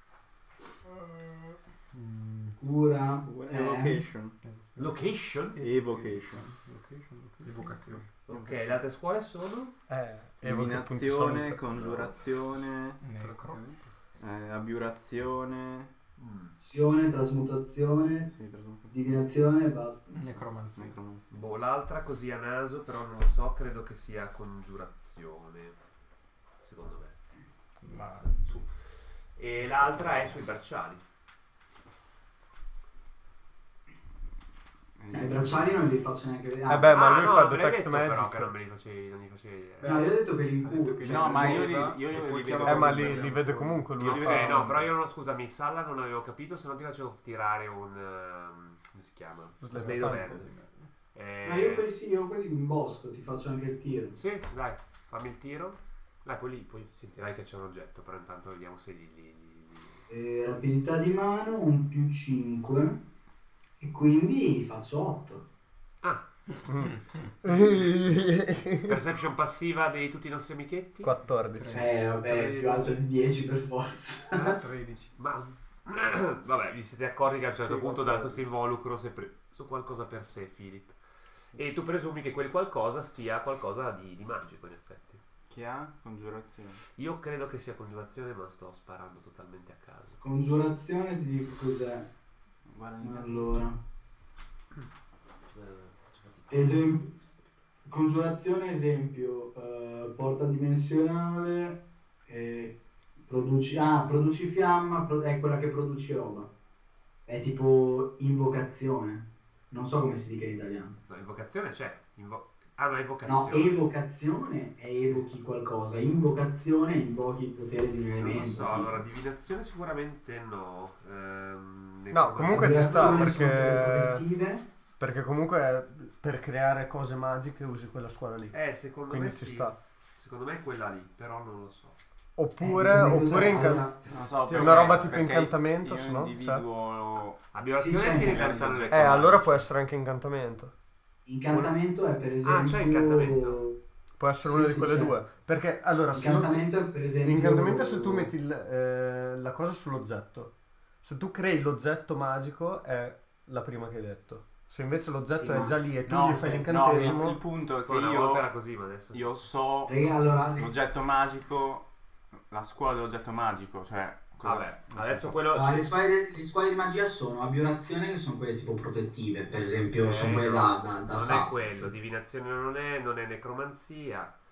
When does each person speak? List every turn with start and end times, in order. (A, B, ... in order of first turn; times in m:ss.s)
0:01.0-0:02.5 A
0:02.6-0:04.0 B
0:03.2-0:04.4 C
0:04.4-0:04.9 A
0:04.8-0:05.6 D
0:05.6-0:06.5 C
0:05.6-0:08.0 A
0:07.4-0:08.0 E
0:08.2-0:09.7 D
0:08.3-0:08.8 C
0:09.9-0:12.0 F
0:10.4-0:13.0 C
0:13.0-0:13.6 A
0:13.2-0:13.9 E
0:14.2-0:15.9 C
0:16.2-0:16.6 D
0:16.6-0:18.3 B
0:18.3-0:18.9 C
0:18.9-0:20.3 B
0:20.1-0:21.0 A
0:20.8-0:21.4 C
0:21.3-0:25.8 D
0:26.6-0:27.1 D
0:27.8-0:28.6 A
0:28.0-0:31.0 D
0:35.0-0:35.8 C
0:35.1-0:37.1 B
0:36.7-0:38.5 F
0:36.9-0:40.0 D
0:39.8-0:43.9 E
0:39.8-0:41.8 B
0:41.0-0:44.8 C
0:42.6-0:44.8 F
0:44.0-0:50.5 D
0:49.6-0:50.4 F
0:51.1-0:51.9 D
0:51.4-0:54.2 B
0:54.1-1:00.0 D
1:00.1-1:03.0 B
1:03.8-1:05.4 B
1:06.7-1:09.0 F
1:08.8-1:11.1 D
1:11.0-1:11.9 F
1:11.5-1:13.0 E
1:11.7-1:14.6 B
1:14.4-1:15.1 E
1:15.1-1:21.0 D
1:17.7-1:18.3 E
1:21.5-1:25.2 D
1:25.5-1:26.8 C
1:27.0-1:30.2 D
1:30.2-1:32.1 B
1:32.7-1:33.6 C
1:33.0-1:33.8 B
1:35.5-1:37.5 D
1:36.5-1:37.1 B
1:37.8-1:46.5 B
1:47.2-1:51.0 B
1:51.1-1:53.8 D
1:53.2-1:59.0 B
1:55.0-1:55.3 D
1:58.2-2:03.4 D
2:02.1-2:04.2 F
2:02.5-2:04.6 B
2:05.0-2:08.6 F
2:08.5-2:12.0 D
2:09.1-2:09.8 F
2:12.4-2:13.9 F
2:12.6-2:14.1 B
2:14.1-2:17.4 C
2:14.4-2:15.3 D
2:14.4-2:16.6 F
2:17.5-2:19.6 D
2:17.8-2:18.5 B
2:18.2-2:19.4 C
2:18.9-2:20.7 F
2:21.2-2:23.8 B
2:21.5-2:21.8 D
2:22.4-2:23.6 D
2:24.2-2:26.7 F
2:24.4-2:25.1 B
2:26.1-2:28.3 B
2:27.2-2:30.5 F
2:31.0-2:37.4 F
2:35.3-2:35.9 B
2:36.0-2:38.4 C
2:37.8-2:39.4 D
2:39.1-2:41.9 C
2:39.9-2:40.7 B
2:42.5-2:45.4 C
2:44.4-2:45.9 D
2:45.5-2:51.9 B
2:50.0-2:54.3 D